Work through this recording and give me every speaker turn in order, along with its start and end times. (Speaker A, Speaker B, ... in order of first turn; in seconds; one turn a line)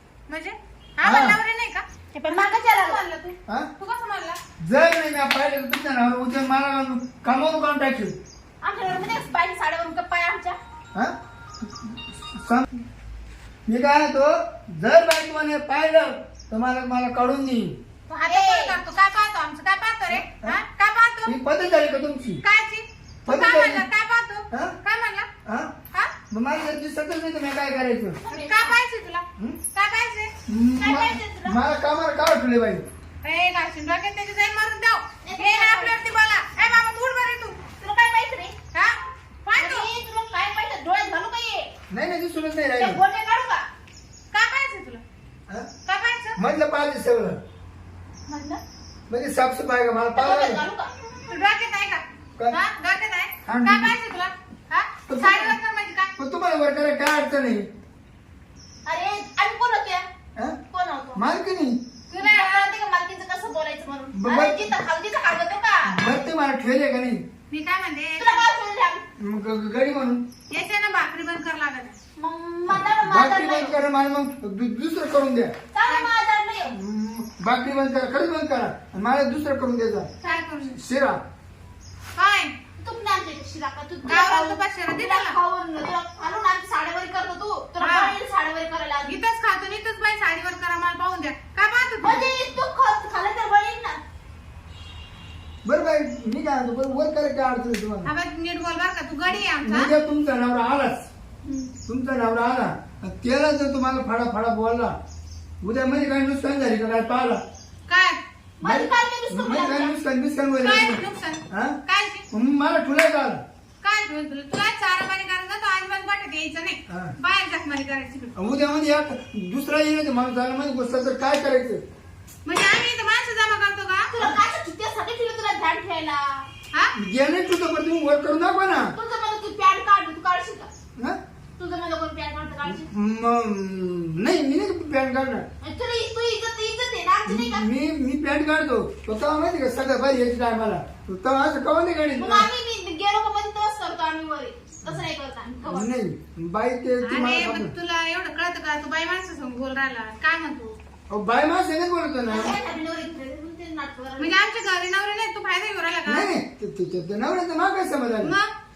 Speaker A: 0.3-4.4
Speaker B: 1.0-1.4
Speaker C: 2.1-3.0
Speaker B: 4.6-8.2
Speaker C: 8.6-10.6
Speaker B: 10.9-12.7
Speaker B: 13.7-17.8
Speaker A: 18.1-21.4
Speaker C: 18.2-18.8
Speaker B: 20.1-20.6
Speaker B: 21.2-22.4
Speaker A: 22.4-25.3
Speaker B: 23.3-23.9
Speaker B: 24.5-24.8
Speaker B: 25.4-25.7
Speaker B: 26.3-28.2
Speaker C: 28.2-28.8
Speaker A: 28.3-30.3
Speaker B: 30.5-32.9
Speaker C: 30.8-31.6
Speaker A: 33.2-37.5
Speaker C: 35.2-36.0
Speaker C: 37.8-38.5
Speaker A: 38.7-39.9
Speaker C: 39.5-41.7
Speaker B: 41.9-43.0
Speaker C: 42.8-43.7
Speaker A: 44.3-45.0
Speaker A: 45.9-46.4
Speaker B: 46.4-47.4
Speaker C: 48.3-48.6
Speaker B: 49.1-50.6
Speaker C: 50.1-50.9
Speaker A: 51.3-56.1
Speaker B: 53.5-53.9
Speaker B: 55.1-55.5
Speaker B: 56.2-57.7
Speaker C: 58.9-60.0
Speaker C: 60.7-61.2
Speaker B: 61.1-61.8
Speaker A: 62.1-62.7
Speaker C: 62.2-66.0
Speaker B: 64.1-64.7
Speaker B: 65.9-67.2
Speaker A: 67.5-68.4
Speaker C: 68.2-69.0
Speaker B: 69.2-70.2
Speaker A: 70.5-72.0
Speaker C: 72.2-73.7
Speaker B: 72.7-75.5
Speaker C: 75.7-76.7
Speaker B: 76.7-80.1
Speaker A: 80.2-80.8
Speaker B: 80.7-81.2
Speaker A: 82.2-82.5
Speaker C: 82.8-89.2
Speaker A: 84.0-85.3
Speaker A: 87.8-88.1
Speaker A: 89.1-92.2
Speaker C: 92.0-94.0
Speaker B: 95.6-98.1
Speaker A: 98.0-99.9
Speaker B: 99.6-101.1
Speaker C: 101.4-101.7
Speaker B: 101.9-105.0
Speaker B: 105.6-107.4
Speaker A: 107.9-108.2
Speaker C: 108.6-109.9
Speaker B: 108.6-111.8
Speaker A: 110.6-112.2
Speaker B: 112.3-113.4
Speaker A: 113.8-118.3
Speaker B: 116.9-117.1
Speaker B: 118.3-121.8
Speaker A: 122.4-124.1
Speaker C: 124.1-126.5
Speaker B: 127.0-128.9
Speaker C: 128.9-130.7
Speaker C: 131.6-132.9
Speaker B: 132.6-135.5
Speaker C: 135.6-137.7
Speaker B: 137.3-142.5
Speaker C: 142.2-145.9
Speaker B: 145.7-147.7
Speaker A: 147.0-150.7
Speaker B: 151.1-152.5
Speaker C: 152.3-154.3
Speaker A: 154.2-156.3
Speaker B: 156.1-158.3
Speaker A: 158.2-158.5